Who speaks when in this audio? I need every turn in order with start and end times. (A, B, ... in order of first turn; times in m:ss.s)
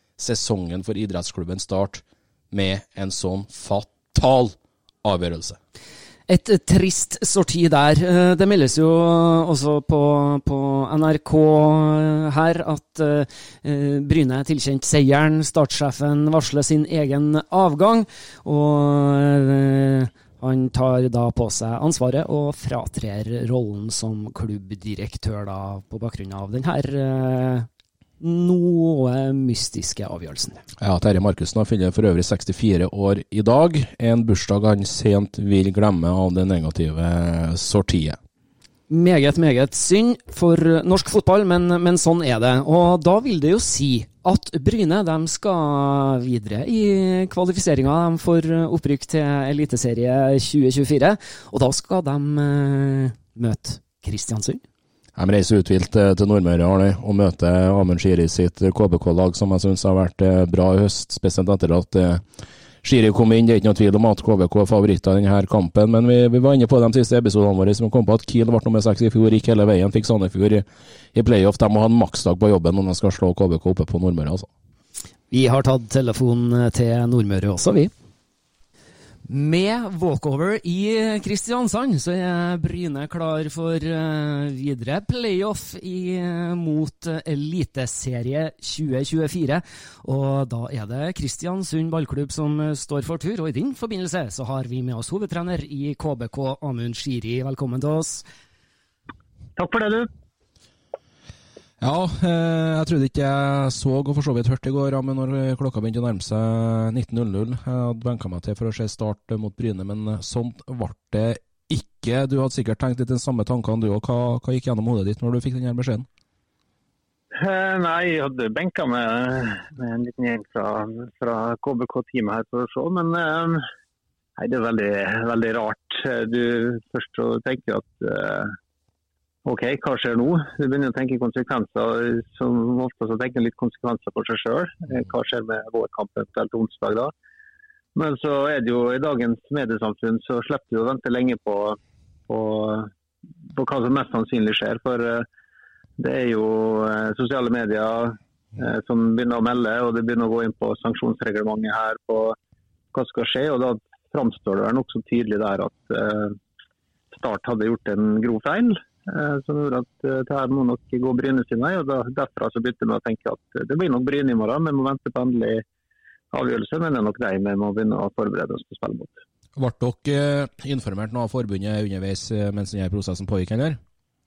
0:00.2-0:05.6 A
0:06.3-0:27.7 B
0:28.2-0:30.6 B
0:30.8-0:38.2 A
0:38.9-0:54.6 B
0:55.2-1:02.2 A
1:02.8-1:14.5 A
1:15.3-1:17.9 B
1:19.2-1:38.2 B
1:39.6-1:40.1 C
1:41.8-1:56.1 A
1:57.3-2:03.6 C
2:04.4-2:08.5 C
2:09.4-2:17.1 C
2:17.9-2:22.9 C
2:23.5-2:25.2 C
2:26.0-2:32.4 C
2:32.9-2:36.4 C
2:37.1-2:45.6 C
2:46.3-2:49.2 C
2:49.6-2:53.8 A